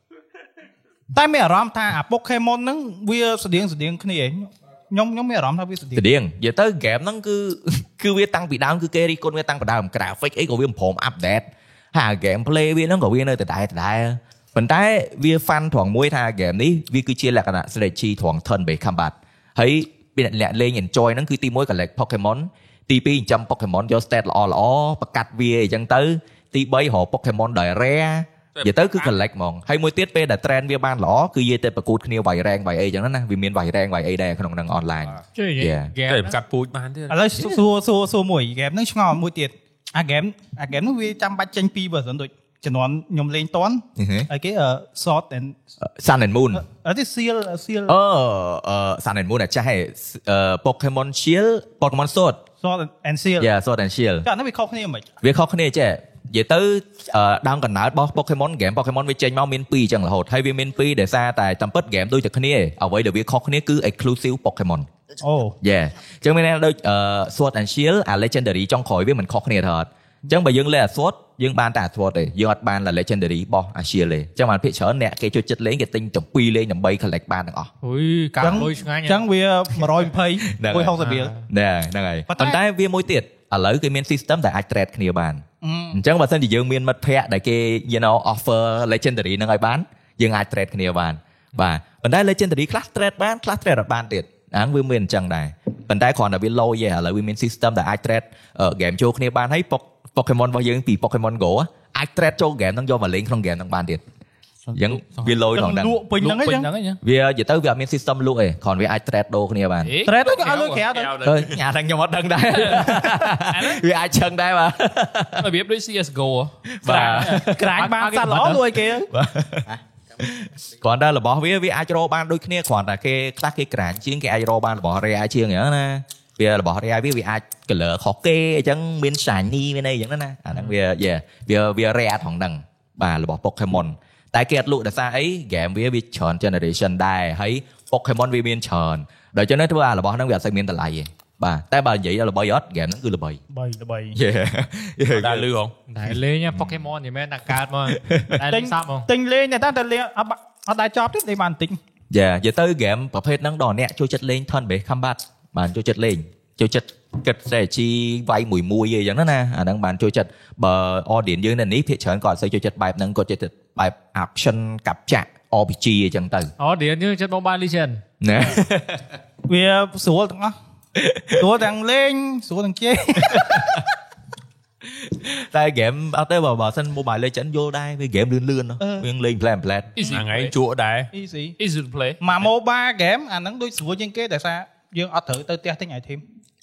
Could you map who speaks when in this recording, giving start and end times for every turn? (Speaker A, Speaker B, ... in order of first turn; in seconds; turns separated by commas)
Speaker A: 1.1-6.0, Speaker B: 6.0-35.9, Speaker C: 28.6-29.1, Speaker D: 35.4-36.4, Speaker C: 36.1-37.2, Speaker A: 37.1-45.6, Speaker B: 44.0-44.3, Speaker B: 45.8-46.6, Speaker A: 46.5-48.0, Speaker B: 47.9-52.4, Speaker A: 52.6-53.5, Speaker B: 53.4-54.3, Speaker A: 54.2-55.1, Speaker B: 55.2-64.9, Speaker A: 65.2-65.6, Speaker B: 65.6-77.7, Speaker D: 77.8-79.2, Speaker A: 78.4-81.4, Speaker B: 80.5-104.0, Speaker D: 81.0-81.3, Speaker A: 82.3-82.6, Speaker A: 85.6-86.0, Speaker B: 104.8-106.0, Speaker A: 105.5-106.7, Speaker E: 106.2-107.0, Speaker B: 107.0-109.9, Speaker E: 109.8-110.8, Speaker A: 110.0-111.2, Speaker C: 110.9-111.6, Speaker B: 111.2-115.5, Speaker E: 113.5-113.8, Speaker E: 115.4-117.4, Speaker B: 116.8-117.7, Speaker A: 117.3-119.1, Speaker D: 117.8-118.6, Speaker B: 119.1-119.7, Speaker B: 120.2-143.4, Speaker A: 143.5-144.2, Speaker B: 144.2-145.5, Speaker C: 145.1-145.7, Speaker D: 145.9-149.1, Speaker B: 146.5-146.8, Speaker B: 147.9-148.4, Speaker A: 148.5-151.8, Speaker B: 152.1-166.5, Speaker D: 166.6-168.0, Speaker B: 168.2-169.1, Speaker A: 169.5-170.6, Speaker B: 171.0-171.4, Speaker A: 171.4-173.8, Speaker B: 173.3-173.6, Speaker B: 174.9-180.0, Speaker A: 178.8-179.1, Speaker E: 180.0-180.5, Speaker C: 180.0-181.1, Speaker A: 181.1-181.6, Speaker E: 181.6-182.2, Speaker A: 182.2-186.2